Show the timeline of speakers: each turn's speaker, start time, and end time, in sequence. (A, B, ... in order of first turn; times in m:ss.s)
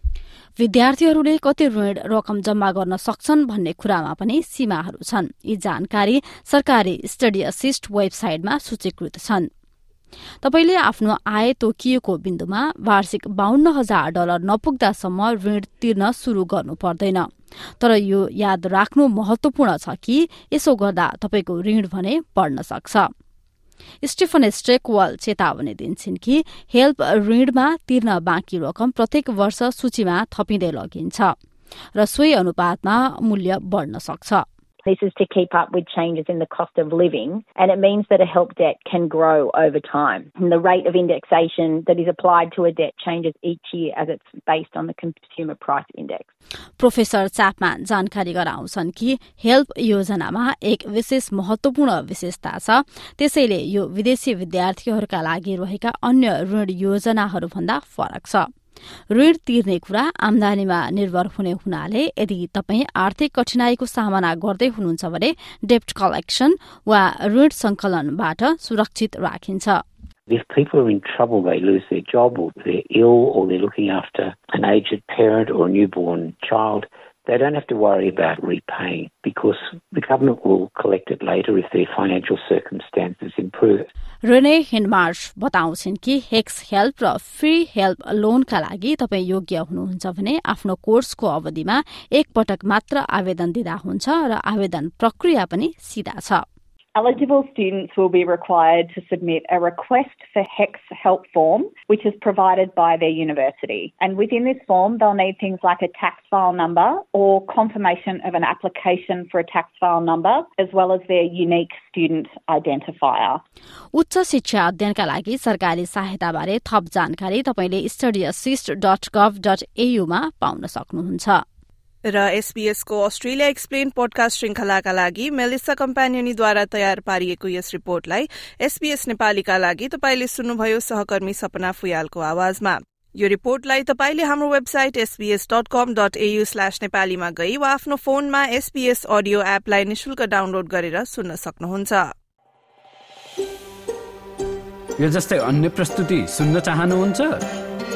0:00.6-0:09.5 A
0:10.4-0:17.2 A
0:17.8-0:23.1 A
0:24.0-0:31.3 A
0:31.9-0:34.4 A
0:34.8-0:46.2 B
0:46.8-0:58.4 A
0:59.1-1:09.8 A
1:10.3-1:23.9 C
1:24.2-1:36.4 A
1:37.0-1:53.4 D
1:53.9-2:01.4 A
2:02.1-2:22.0 E
2:25.0-2:27.4 F